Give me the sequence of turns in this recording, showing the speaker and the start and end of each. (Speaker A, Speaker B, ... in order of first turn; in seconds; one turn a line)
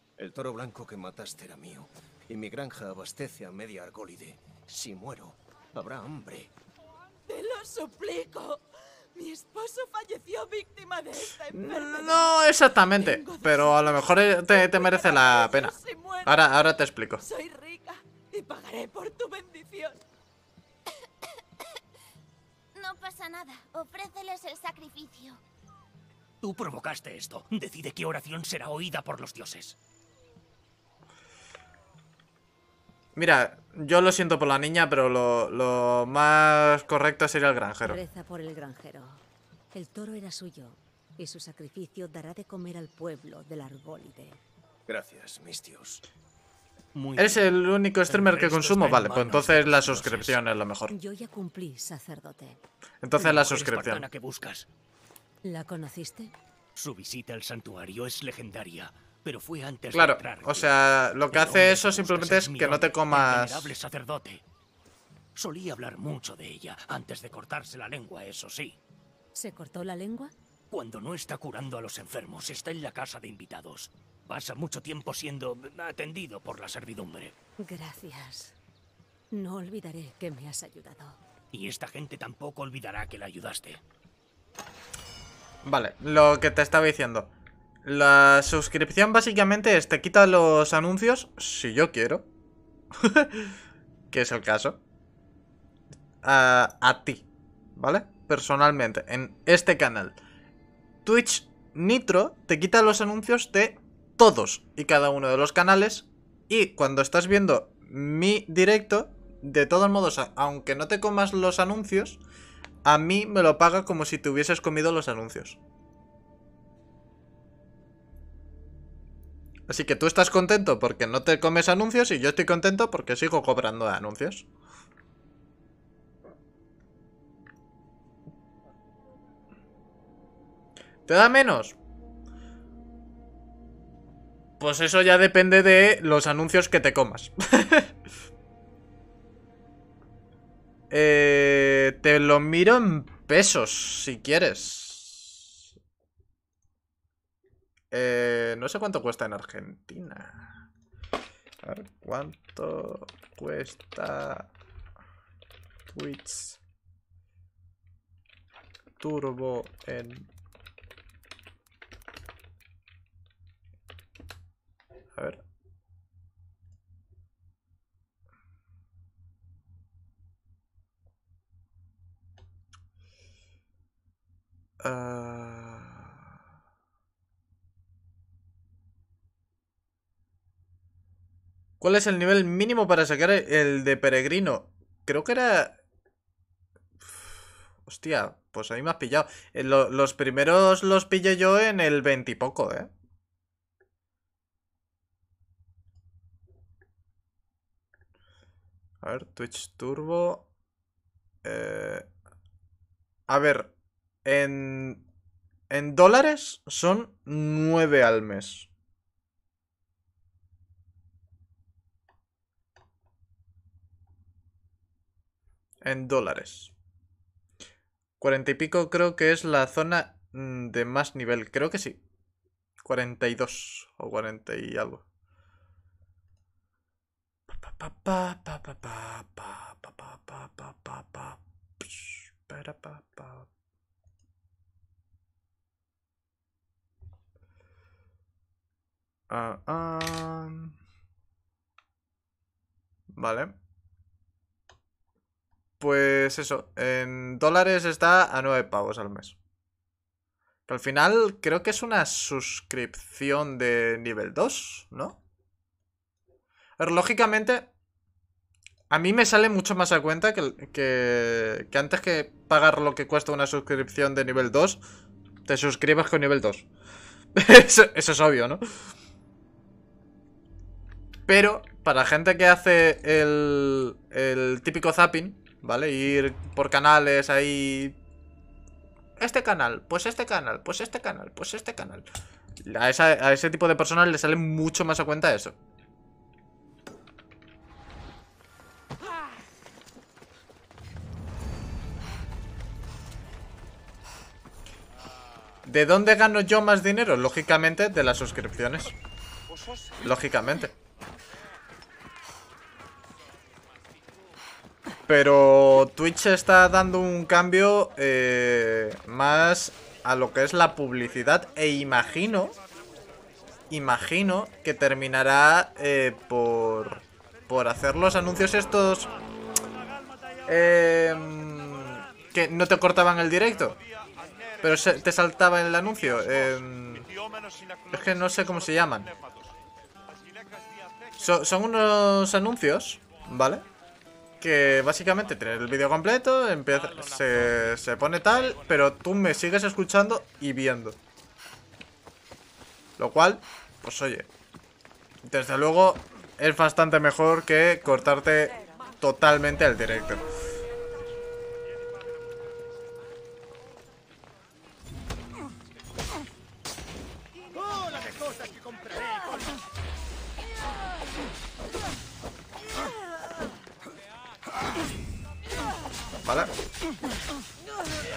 Speaker A: 0.2-6.5
Speaker B: 7.3-8.6
Speaker B: 9.1-12.4
Speaker C: 11.5-17.2
Speaker B: 13.0-16.5
Speaker B: 17.2-20.0
Speaker D: 22.7-25.4
Speaker E: 26.4-29.8
Speaker C: 33.1-38.0
Speaker F: 37.8-44.4
Speaker A: 44.9-46.0
Speaker E: 46.9-47.5
Speaker C: 47.2-50.9
Speaker E: 48.0-50.4
Speaker F: 50.9-52.6
Speaker C: 53.0-54.0
Speaker E: 53.2-54.7
Speaker F: 55.4-56.3
Speaker E: 56.8-64.4
Speaker C: 59.9-63.8
Speaker E: 65.3-68.8
Speaker F: 69.3-70.3
Speaker E: 70.7-77.3
Speaker F: 77.6-78.5
Speaker F: 79.3-81.2
Speaker E: 81.5-83.8
Speaker C: 85.6-87.3
Speaker C: 87.8-92.3
Speaker C: 92.9-93.5
Speaker C: 94.1-94.8
Speaker C: 96.2-100.2
Speaker C: 101.0-112.2
Speaker C: 112.8-115.6
Speaker C: 119.7-124.5
Speaker C: 131.1-131.8
Speaker C: 134.6-137.9
Speaker C: 140.9-145.6
Speaker C: 147.9-150.6
Speaker C: 151.6-154.5
Speaker C: 155.9-156.6
Speaker C: 159.0-160.3
Speaker C: 165.1-165.4
Speaker C: 174.8-176.1
Speaker C: 181.8-185.8
Speaker C: 187.0-192.9
Speaker C: 199.0-200.5
Speaker C: 201.4-202.1
Speaker C: 203.3-203.7
Speaker C: 204.2-205.0
Speaker C: 205.7-208.7
Speaker C: 215.8-216.7
Speaker C: 218.2-222.0
Speaker C: 222.8-225.0
Speaker C: 227.5-233.5
Speaker C: 239.3-240.8
Speaker C: 243.1-243.6
Speaker C: 245.8-249.3
Speaker C: 250.7-255.2
Speaker C: 256.8-257.7
Speaker C: 258.9-264.8
Speaker C: 265.4-266.7
Speaker C: 267.3-268.6
Speaker C: 271.3-278.0
Speaker C: 279.2-282.1
Speaker C: 282.6-285.6
Speaker C: 295.6-298.9
Speaker C: 300.0-300.7
Speaker C: 305.1-312.6
Speaker C: 313.7-319.1
Speaker C: 320.4-323.8
Speaker C: 324.6-327.1
Speaker C: 327.9-329.4
Speaker C: 331.2-333.6
Speaker C: 334.4-341.0
Speaker C: 343.0-344.3
Speaker C: 345.2-350.2
Speaker C: 366.2-366.5